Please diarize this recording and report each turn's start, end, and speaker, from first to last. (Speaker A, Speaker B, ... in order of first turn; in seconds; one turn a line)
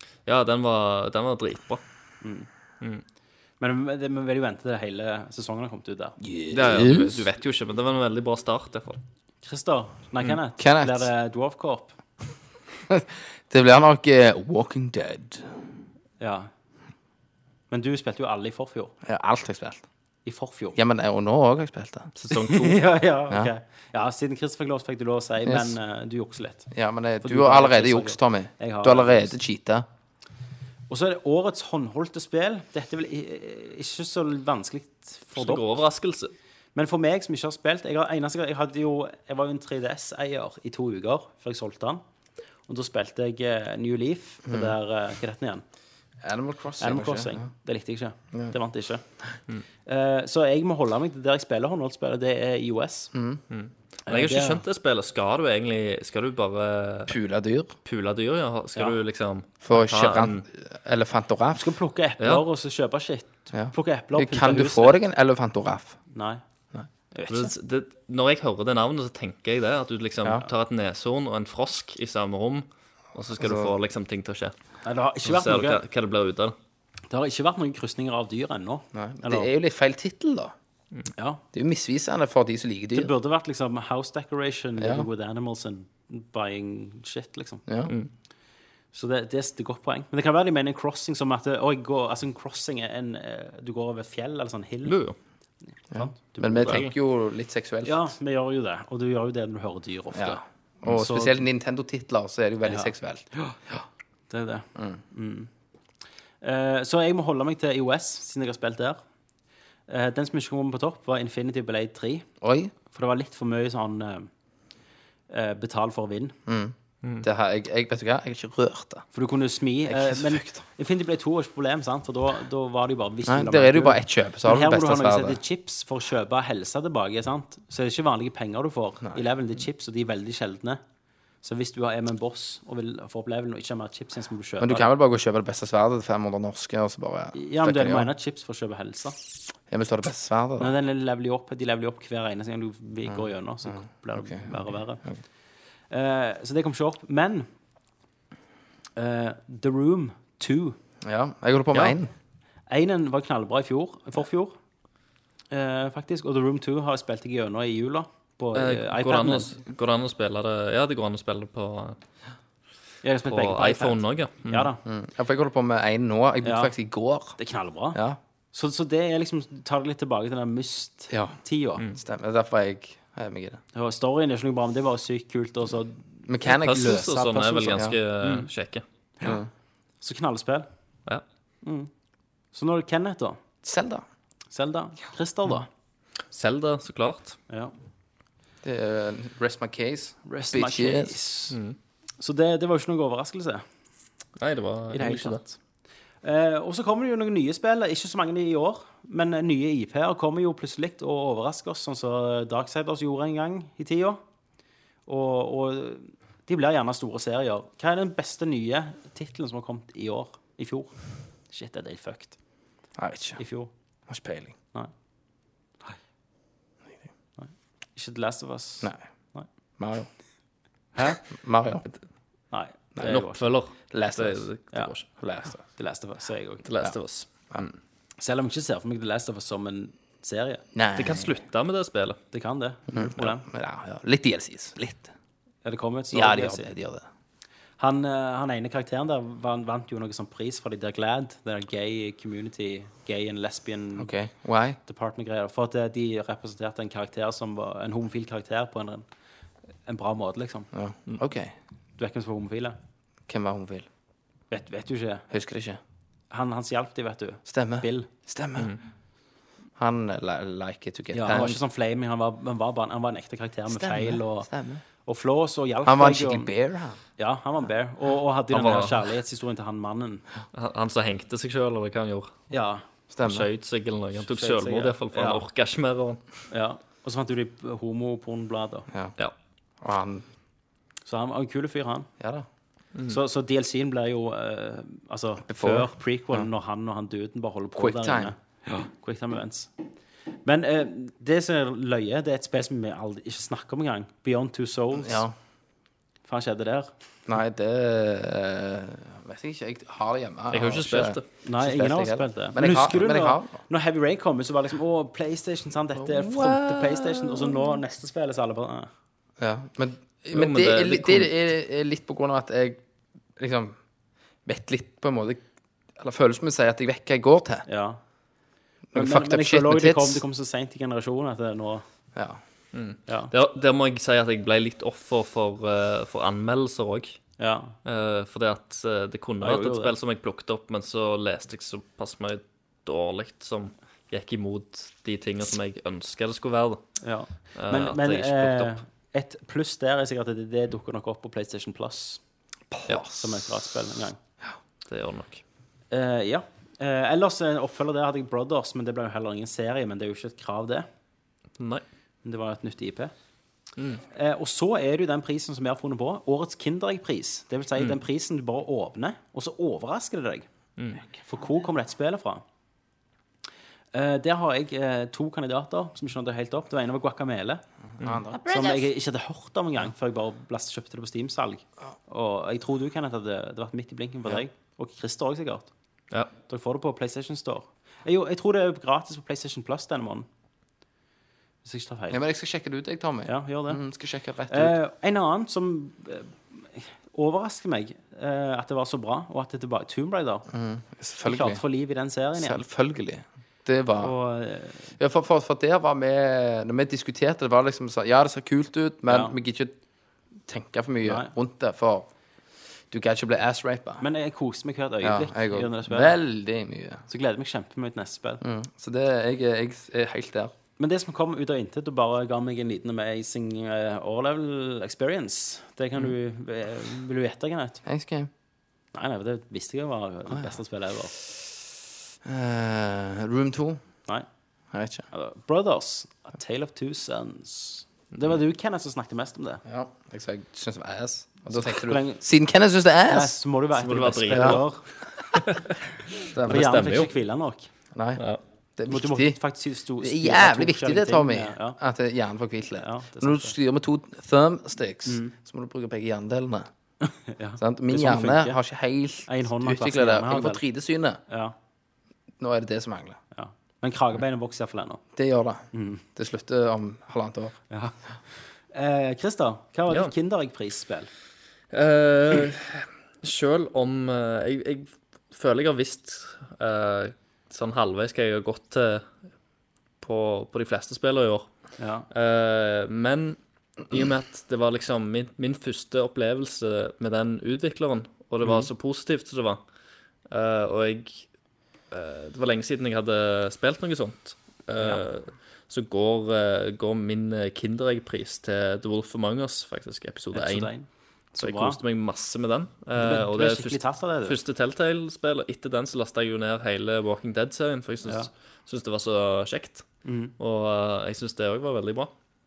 Speaker A: 0.2-1.8
Speaker B: 2.2-2.5
Speaker B: 3.6-6.2
Speaker C: 6.2-7.2
Speaker A: 6.5-9.0
Speaker B: 9.4-11.9
Speaker C: 10.6-11.1
Speaker C: 12.9-15.5
Speaker B: 16.2-16.5
Speaker B: 17.7-18.9
Speaker C: 19.0-19.8
Speaker B: 20.2-20.8
Speaker C: 20.7-22.1
Speaker A: 22.2-22.8
Speaker B: 22.3-26.7
Speaker C: 25.4-25.8
Speaker C: 26.7-29.9
Speaker B: 27.2-29.4
Speaker B: 30.9-35.6
Speaker A: 35.3-36.3
Speaker B: 36.7-42.0
Speaker B: 42.7-45.6
Speaker C: 44.5-44.7
Speaker C: 46.2-47.5
Speaker B: 46.8-49.0
Speaker B: 49.9-53.1
Speaker C: 53.1-53.4
Speaker A: 53.5-57.2
Speaker B: 54.1-54.6
Speaker C: 57.1-57.7
Speaker A: 57.8-60.4
Speaker C: 59.6-61.6
Speaker B: 61.5-65.0
Speaker C: 63.5-66.0
Speaker B: 66.1-66.4
Speaker B: 67.1-67.5
Speaker A: 67.3-74.5
Speaker C: 70.2-70.5
Speaker C: 73.4-73.7
Speaker B: 74.8-75.8
Speaker A: 75.2-76.5
Speaker B: 77.1-79.5
Speaker C: 78.9-80.5
Speaker B: 81.2-81.4
Speaker C: 81.5-83.1
Speaker B: 82.9-87.6
Speaker C: 84.8-85.0
Speaker C: 87.7-87.9
Speaker B: 88.9-95.0
Speaker A: 94.8-95.2
Speaker C: 95.9-98.0
Speaker B: 95.9-96.8
Speaker A: 96.7-96.9
Speaker B: 97.8-101.4
Speaker C: 100.1-103.8
Speaker B: 102.7-103.5
Speaker B: 104.3-105.5
Speaker C: 104.8-105.0
Speaker B: 106.4-109.0
Speaker B: 109.9-112.3
Speaker C: 112.4-112.7
Speaker B: 112.9-114.3
Speaker B: 115.3-116.4
Speaker C: 116.5-119.0
Speaker B: 119.1-130.8
Speaker C: 119.8-120.6
Speaker C: 123.2-125.4
Speaker B: 131.4-134.9
Speaker C: 134.6-138.1
Speaker B: 137.3-139.2
Speaker C: 139.7-140.7
Speaker B: 140.6-145.0
Speaker C: 143.1-145.2
Speaker B: 145.9-147.5
Speaker B: 149.0-150.8
Speaker C: 151.0-152.1
Speaker B: 152.7-154.5
Speaker B: 155.5-159.6
Speaker A: 158.5-162.0
Speaker B: 163.0-164.8
Speaker A: 163.2-164.7
Speaker C: 164.8-167.4
Speaker B: 166.4-166.7
Speaker B: 167.4-168.0
Speaker C: 167.9-168.2
Speaker B: 168.5-171.8
Speaker C: 171.1-171.4
Speaker C: 171.9-173.6
Speaker B: 173.7-178.5
Speaker C: 176.3-177.1
Speaker A: 176.4-178.8
Speaker C: 179.2-179.5
Speaker B: 180.0-180.7
Speaker B: 181.6-181.9
Speaker B: 182.5-183.4
Speaker C: 183.6-184.0
Speaker B: 184.5-185.7
Speaker A: 186.3-187.4
Speaker C: 188.6-191.2
Speaker B: 190.2-191.6
Speaker A: 191.5-191.8
Speaker B: 192.2-193.6
Speaker A: 194.4-195.4
Speaker B: 194.9-195.6
Speaker B: 196.2-204.2
Speaker B: 205.1-210.9
Speaker B: 211.5-212.3
Speaker C: 213.0-213.4
Speaker B: 213.4-213.7
Speaker C: 214.1-214.5
Speaker B: 217.4-219.5
Speaker C: 219.8-220.1
Speaker B: 220.9-221.2
Speaker C: 221.2-221.8
Speaker B: 222.5-223.4
Speaker A: 223.0-225.1
Speaker C: 223.9-224.5
Speaker C: 225.2-225.6
Speaker B: 225.7-226.6
Speaker A: 226.6-227.8
Speaker B: 228.2-230.6
Speaker C: 230.7-231.3
Speaker A: 230.9-232.2
Speaker B: 232.3-233.4
Speaker C: 232.9-235.1
Speaker B: 235.6-236.7
Speaker C: 236.1-237.1
Speaker B: 237.8-244.1
Speaker C: 244.0-244.8
Speaker B: 244.8-249.0
Speaker B: 249.8-250.7
Speaker C: 250.7-251.5
Speaker B: 252.0-252.8
Speaker C: 253.3-253.9
Speaker B: 254.5-255.3
Speaker C: 255.3-255.8
Speaker B: 256.3-258.1
Speaker C: 257.4-258.7
Speaker C: 259.8-261.6
Speaker B: 261.1-264.5
Speaker C: 263.7-264.8
Speaker B: 265.0-266.5
Speaker C: 265.8-267.0
Speaker B: 267.2-270.2
Speaker A: 268.5-269.0
Speaker A: 270.5-272.3
Speaker B: 272.5-272.8
Speaker C: 273.1-273.5
Speaker A: 273.2-276.2
Speaker B: 274.2-275.4
Speaker B: 276.5-278.9
Speaker C: 279.8-280.2
Speaker B: 281.1-282.1
Speaker C: 282.2-282.4
Speaker B: 283.1-289.7
Speaker C: 285.4-286.5
Speaker C: 287.8-288.3
Speaker B: 290.4-295.2
Speaker C: 294.9-295.3
Speaker B: 296.3-296.9
Speaker C: 297.3-303.6
Speaker A: 300.5-301.2
Speaker B: 301.4-308.9
Speaker C: 306.0-307.5
Speaker C: 309.4-312.8
Speaker A: 310.3-311.3
Speaker C: 313.4-313.8
Speaker C: 314.4-315.4
Speaker C: 316.0-317.6
Speaker B: 317.7-318.0
Speaker C: 318.9-320.2
Speaker B: 318.9-321.8
Speaker C: 322.1-322.4
Speaker A: 322.7-327.2
Speaker B: 323.1-323.3
Speaker B: 327.4-327.8
Speaker A: 327.8-336.9
Speaker B: 329.4-329.9
Speaker B: 337.0-342.2
Speaker A: 337.5-338.8
Speaker C: 342.7-343.2
Speaker B: 343.1-344.2
Speaker A: 344.9-345.4
Speaker B: 345.9-350.9
Speaker A: 351.6-351.8
Speaker B: 352.2-353.1
Speaker A: 353.8-354.0
Speaker B: 354.1-360.4
Speaker B: 361.1-362.4
Speaker B: 363.9-367.6
Speaker C: 367.9-368.9
Speaker B: 368.4-375.7
Speaker B: 376.5-380.2
Speaker B: 381.6-382.2
Speaker C: 382.1-384.8
Speaker B: 383.2-383.8
Speaker B: 384.5-390.5
Speaker C: 390.5-391.6
Speaker B: 391.2-392.6
Speaker C: 392.4-394.1
Speaker B: 394.0-394.9
Speaker C: 395.0-399.7
Speaker B: 399.1-399.4
Speaker C: 400.5-402.1
Speaker B: 401.0-401.3
Speaker C: 402.9-404.0
Speaker B: 404.0-406.2
Speaker C: 405.0-407.0
Speaker B: 407.1-408.4
Speaker C: 408.4-410.5
Speaker B: 410.8-417.8
Speaker C: 417.8-418.3
Speaker B: 418.9-421.1
Speaker C: 422.2-423.8
Speaker C: 424.7-425.1
Speaker B: 425.1-429.6
Speaker C: 429.6-433.4
Speaker B: 431.6-432.2
Speaker B: 433.1-434.8
Speaker A: 433.8-434.7
Speaker C: 434.3-434.6
Speaker A: 435.3-435.7
Speaker A: 436.2-437.1
Speaker C: 436.3-436.7
Speaker B: 436.5-437.7
Speaker C: 437.9-438.2
Speaker C: 438.8-439.4
Speaker B: 438.9-441.8
Speaker C: 440.0-446.7
Speaker B: 442.8-443.5
Speaker B: 445.1-445.3
Speaker B: 447.0-448.6
Speaker C: 447.6-451.2
Speaker B: 449.3-450.6
Speaker B: 451.3-451.5
Speaker C: 452.4-453.2
Speaker B: 453.3-455.0
Speaker C: 455.1-457.6
Speaker B: 455.7-456.0
Speaker B: 457.7-458.0
Speaker B: 458.7-461.1
Speaker A: 461.7-469.1
Speaker A: 470.0-471.5
Speaker B: 471.8-472.1
Speaker A: 472.1-473.4
Speaker A: 473.9-479.6
Speaker A: 480.3-481.2
Speaker A: 481.9-490.8
Speaker B: 490.3-491.8
Speaker A: 491.4-502.1
Speaker B: 492.9-494.4
Speaker B: 500.0-500.3